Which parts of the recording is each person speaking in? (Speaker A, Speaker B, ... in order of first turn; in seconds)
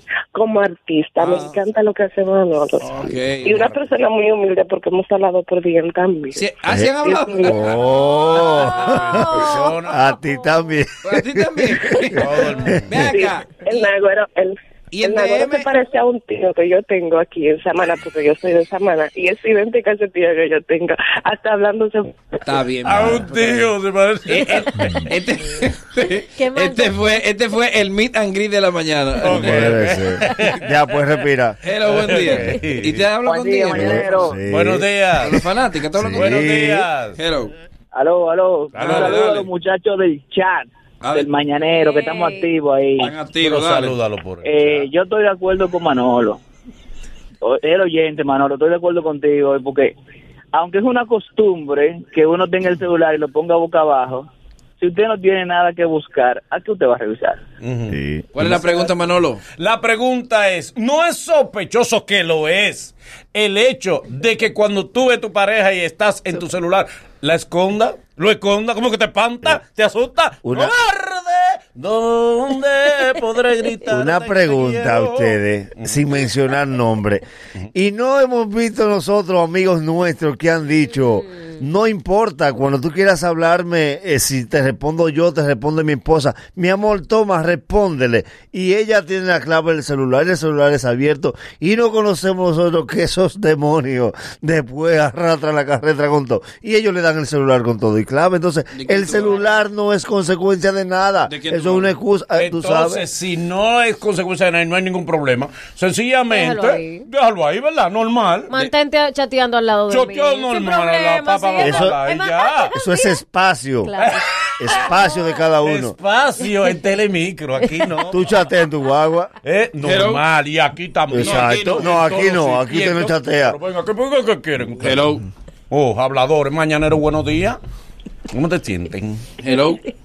Speaker A: 0.3-7.5, 13.0-22.2
Speaker B: 1.2-1.6, 2.8-3.9, 6.4-7.6, 11.0-12.3, 12.9-13.5, 14.9-15.7, 22.4-23.2, 24.3-29.8, 31.6-34.1, 35.2-36.5, 37.2-37.5, 38.8-39.5, 41.0-41.3, 43.0-44.0, 58.3-59.4, 98.7-99.5, 101.3-102.0, 119.8-120.2, 121.2-122.1, 124.8-125.2, 129.4-129.8
Speaker C: 6.7-11.7, 12.4-12.7, 29.3-31.6, 33.7-34.9, 35.9-36.9, 57.9-58.6, 70.4-70.7, 73.9-77.2, 77.7-103.0, 111.6-112.0, 112.7-113.9, 114.6-115.9, 118.1-119.3, 121.1-123.6
Speaker D: 7.6-10.1, 12.2-13.1, 22.8-25.1, 29.2-31.0, 31.8-33.0, 34.5-35.4, 36.0-37.2, 38.7-39.2, 43.4-44.9, 57.6-58.0, 59.6-76.0, 102.4-108.5, 109.9-112.7, 114.0-115.0, 115.6-118.2, 119.4-125.1, 125.7-127.6, 128.3-129.2
Speaker E: 7.9-10.8, 26.2-26.9, 41.6-42.5, 106.3-107.1, 108.5-113.2, 113.8-114.2, 114.8-115.4
Speaker F: 33.2-34.4, 37.9-43.1, 44.4-46.4, 47.4-50.0, 50.5-54.3, 54.8-57.4